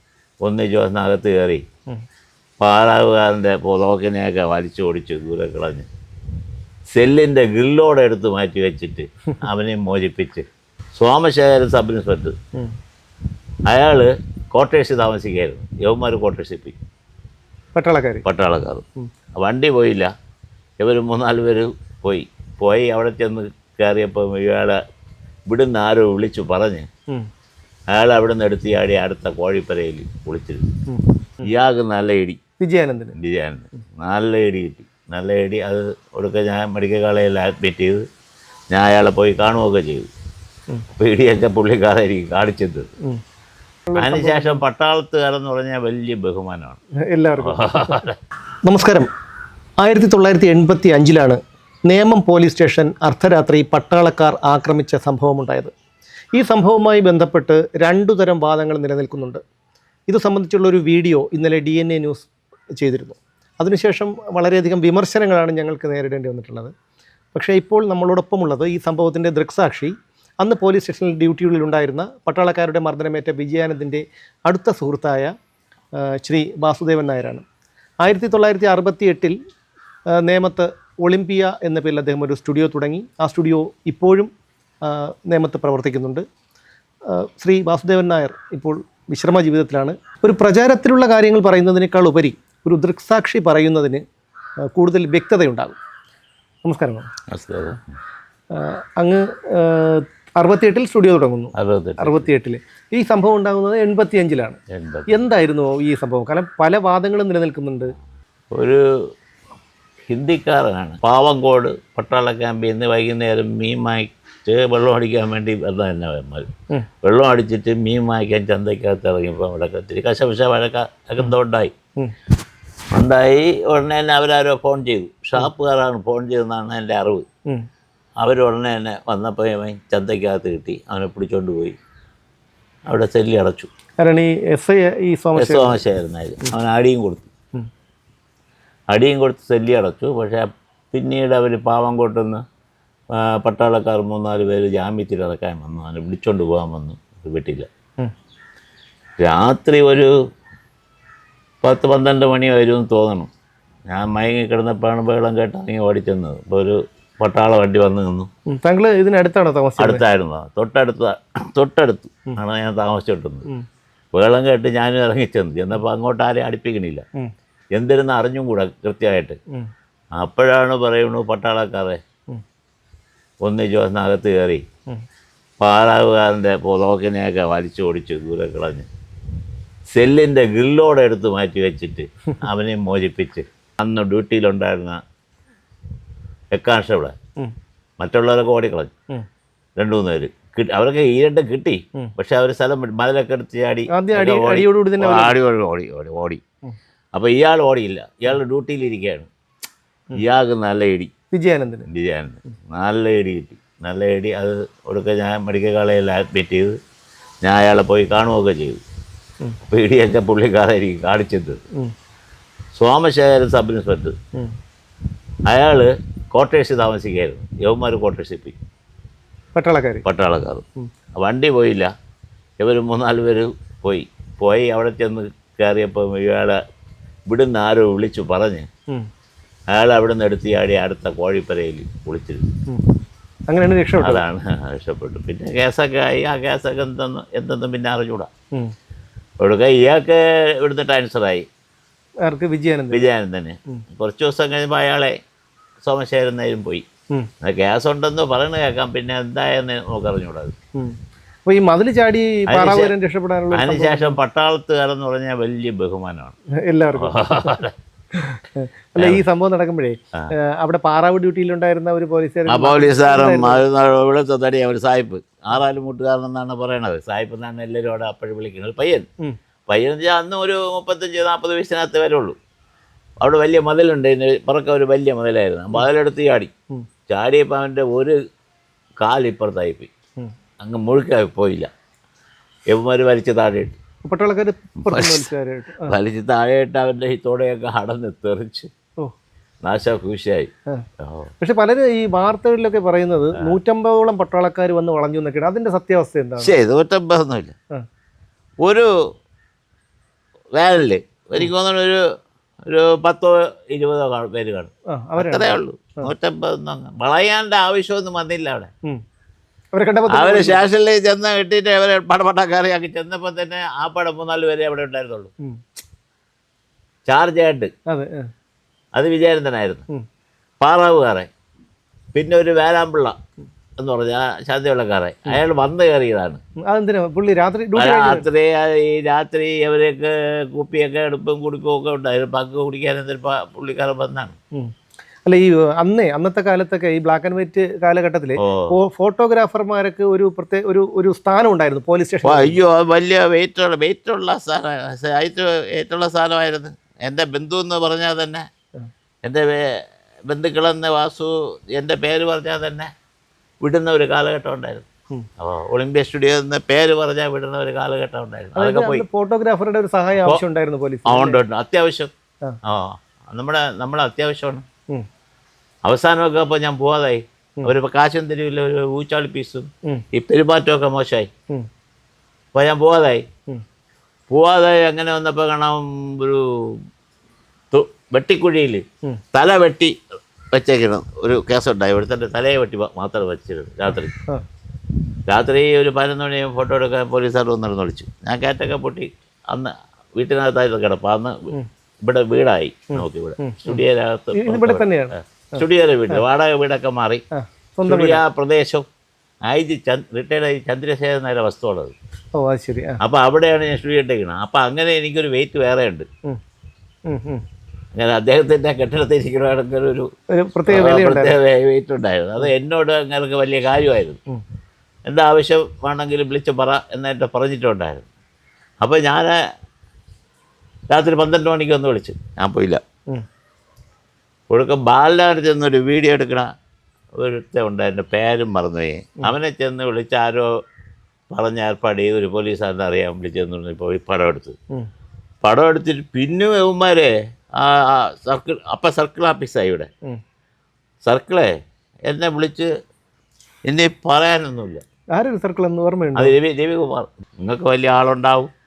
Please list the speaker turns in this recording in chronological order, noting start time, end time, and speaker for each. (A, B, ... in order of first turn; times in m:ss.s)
0:00.4-0:01.6 A
0:02.6-0:05.9 A
0:06.9-0:10.4 A
0:11.0-0:12.3 A
0:13.7-0:16.8 A
0:17.8-0:18.2 B
0:18.2-0:20.1 A
0:20.8-0:24.8 A
0:25.5-0:26.9 A
0:27.9-0:30.7 A
0:30.9-0:31.5 B
0:31.4-0:32.4 A
0:32.6-0:33.1 B
0:33.2-0:38.0 A
0:38.7-0:40.1 A
0:40.9-0:42.9 A
0:43.9-0:44.6 B
0:44.0-0:46.8 A
0:47.1-0:47.6 B
0:47.4-0:48.2 A
0:48.6-0:49.1 B
0:49.8-0:55.7 B
0:56.4-0:59.4 B
1:00.1-1:06.7 B
1:07.3-1:15.3 B
1:16.0-1:17.4 B
1:18.0-1:19.4 B
1:20.2-1:24.3 B
1:24.8-1:26.2 B
1:27.1-1:34.0 B
1:34.7-1:35.8 B
1:36.6-1:37.1 B
1:37.3-1:37.8 A
1:38.5-1:44.6 B
1:41.6-1:42.3 A
1:44.7-1:45.1 A
1:45.1-1:47.9 B
1:48.5-1:48.8 A
1:50.1-1:56.5 A
1:57.0-2:01.7 A
2:02.9-2:07.3 A
2:08.2-2:11.8 A
2:12.9-2:13.7 A
2:14.0-2:15.8 B
2:15.4-2:17.3 A
2:18.9-2:22.4 A
2:23.1-2:27.7 A
2:29.2-2:30.1 A
2:31.6-2:33.3 A
2:33.9-2:38.3 A
2:38.5-2:40.0 B
2:39.8-2:43.4 A
2:44.1-2:47.0 A
2:47.7-2:49.4 A
2:50.2-2:52.0 A
2:53.4-2:54.6 A
2:55.6-2:58.9 A
2:59.9-3:05.0 A
3:06.5-3:07.1 A
3:08.0-3:08.9 A
3:09.8-3:16.4 A
3:13.9-3:15.4 B
3:17.1-3:19.3 A
3:20.2-3:21.1 A
3:21.3-3:21.9 B
3:21.9-3:26.8 A
3:27.4-3:28.8 A
3:29.6-3:31.6 A
3:32.8-3:34.1 A
3:35.5-3:38.6 A
3:39.6-3:40.0 B
3:40.0-3:40.6 A
3:41.2-3:41.9 A
3:42.6-3:46.6 A
3:47.3-3:48.7 A
3:49.7-3:52.5 A
3:53.5-3:54.2 B
3:54.0-3:58.3 A
3:59.4-4:01.4 A
4:02.2-4:03.0 B
4:02.9-4:05.1 A
4:05.8-4:06.8 A
4:07.4-4:10.5 A
4:10.8-4:14.2 B
4:12.5-4:12.9 A
4:13.5-4:16.3 A
4:16.7-4:17.6 B
4:17.0-4:17.7 A
4:18.1-4:23.6 B
4:22.5-4:29.0 A
4:29.7-4:32.4 A
4:33.2-4:36.5 A
4:37.1-4:38.2 A
4:39.0-4:39.9 A
4:40.6-4:41.7 A
4:42.7-4:43.8 A
4:44.0-4:45.9 B
4:44.9-4:45.3 A
4:45.8-4:48.7 A
4:49.6-4:50.5 A
4:51.0-4:51.3 A
4:51.4-4:56.5 B
4:56.4-4:57.5 A
4:58.6-4:58.9 A
5:00.6-5:02.0 A
5:02.7-5:08.7 A
5:04.9-5:06.1 B
5:09.7-5:10.6 B
5:10.1-5:15.3 A
5:17.1-5:17.7 A
5:17.9-5:18.3 B
5:18.9-5:19.8 A
5:20.6-5:21.3 A
5:22.1-5:23.2 A
5:23.8-5:26.4 A
5:26.7-5:28.3 B
5:27.8-5:34.3 A
5:35.2-5:42.6 B
5:38.4-5:38.8 A
5:42.2-5:48.5 A
5:49.2-5:52.9 A
5:53.6-5:54.8 A
5:55.4-5:59.0 A
5:58.6-6:01.4 B
6:01.0-6:02.1 A
6:02.6-6:04.6 A
6:05.8-6:11.3 A
6:12.5-6:13.2 A
6:14.3-6:16.8 A
6:17.7-6:19.9 A
6:20.5-6:24.2 A
6:25.3-6:37.2 A
6:32.9-6:33.8 B
6:34.3-6:36.2 B
6:37.3-6:38.2 B
6:37.9-6:38.8 A
6:39.5-6:41.9 A
6:42.4-6:43.0 B
6:43.0-6:46.1 A
6:47.1-6:47.4 B
6:47.9-6:50.1 A
6:50.4-6:51.4 B
6:50.7-6:54.2 A
6:55.1-6:58.1 A
6:58.8-6:59.4 A
7:00.9-7:02.8 A
7:04.5-7:06.5 A
7:07.2-7:10.5 A
7:11.3-7:14.6 A
7:15.4-7:19.9 A
7:21.0-7:21.5 A
7:22.1-7:22.7 A
7:23.7-7:24.8 A
7:25.2-7:26.3 B
7:26.2-7:28.5 A